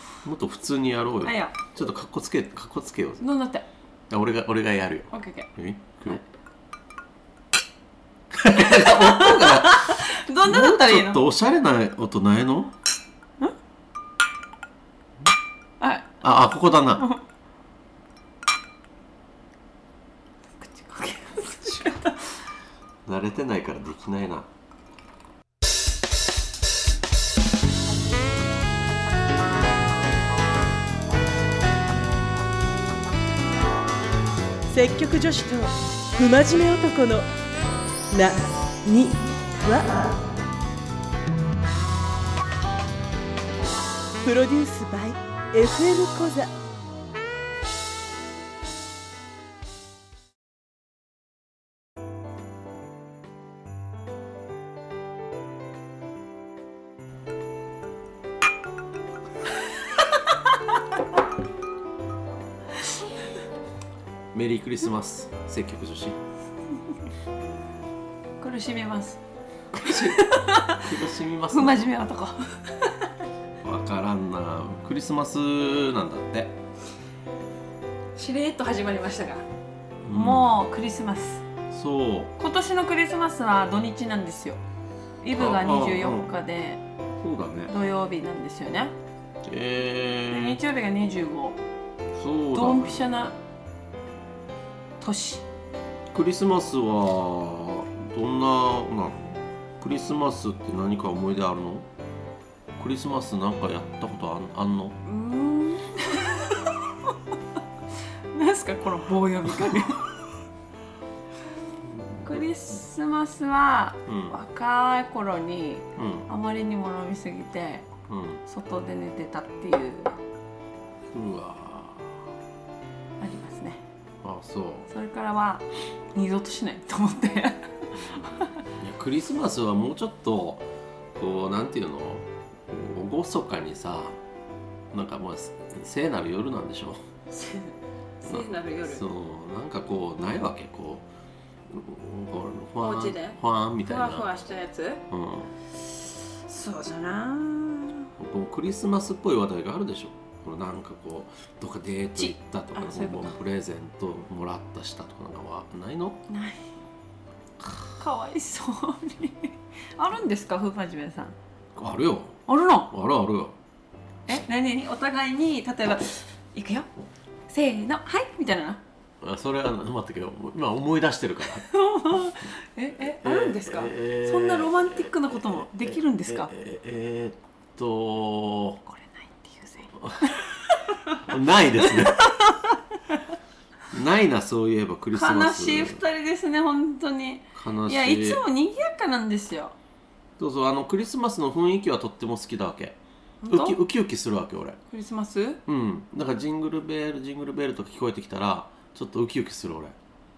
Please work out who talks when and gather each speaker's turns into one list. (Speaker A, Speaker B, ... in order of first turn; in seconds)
Speaker A: 0.2-3.2, 4.1-6.2, 8.3-12.7, 16.2-17.1, 21.7-22.0, 23.1-24.5, 64.3-66.2, 69.7-71.9, 73.6-76.6, 80.0-80.5, 81.7-82.3, 85.3-86.3, 87.2-87.7, 89.4-90.6, 92.1-93.0, 96.1-101.9, 102.8-105.0, 111.9-112.4, 114.1-114.3, 116.0-116.3, 118.1-118.4, 121.1-122.2, 124.2-124.9, 128.1-134.2, 134.9-137.0, 138.2-141.1, 141.7-144.3, 145.1-145.5, 148.2-156.2, 161.7-163.6, 169.2-171.7, 173.0-178.8, 180.0-180.4, 181.1-182.3, 183.9-186.0, 187.5-188.4, 190.4-193.0, 193.5-194.8, 195.7-199.9
Speaker B: 1.2-1.5, 3.2-3.7, 5.1-5.5, 8.6-11.2, 15.8-16.1, 20.5-22.2, 68.4-69.2, 69.8-71.0, 71.5-73.1, 78.1-79.4, 80.1-81.4, 82.4-84.6, 85.2-86.8, 87.7-88.9, 90.3-91.6, 92.5-93.4, 95.0-95.4, 105.0-107.2, 108.3-110.1, 112.2-117.9, 118.5-120.2, 123.2-123.8, 124.9-128.5, 137.3-139.0, 142.8-145.0, 145.8-148.1, 152.2-153.4, 156.3-156.6, 158.0-161.3, 162.5-162.9, 164.3-166.9, 167.5-168.8, 171.6-176.5, 178.9-180.3, 180.9-181.2, 181.8-183.2, 185.1-189.7, 193.4-193.8, 194.9-195.6
Speaker C: 34.7-37.2, 38.1-40.2, 44.2-46.5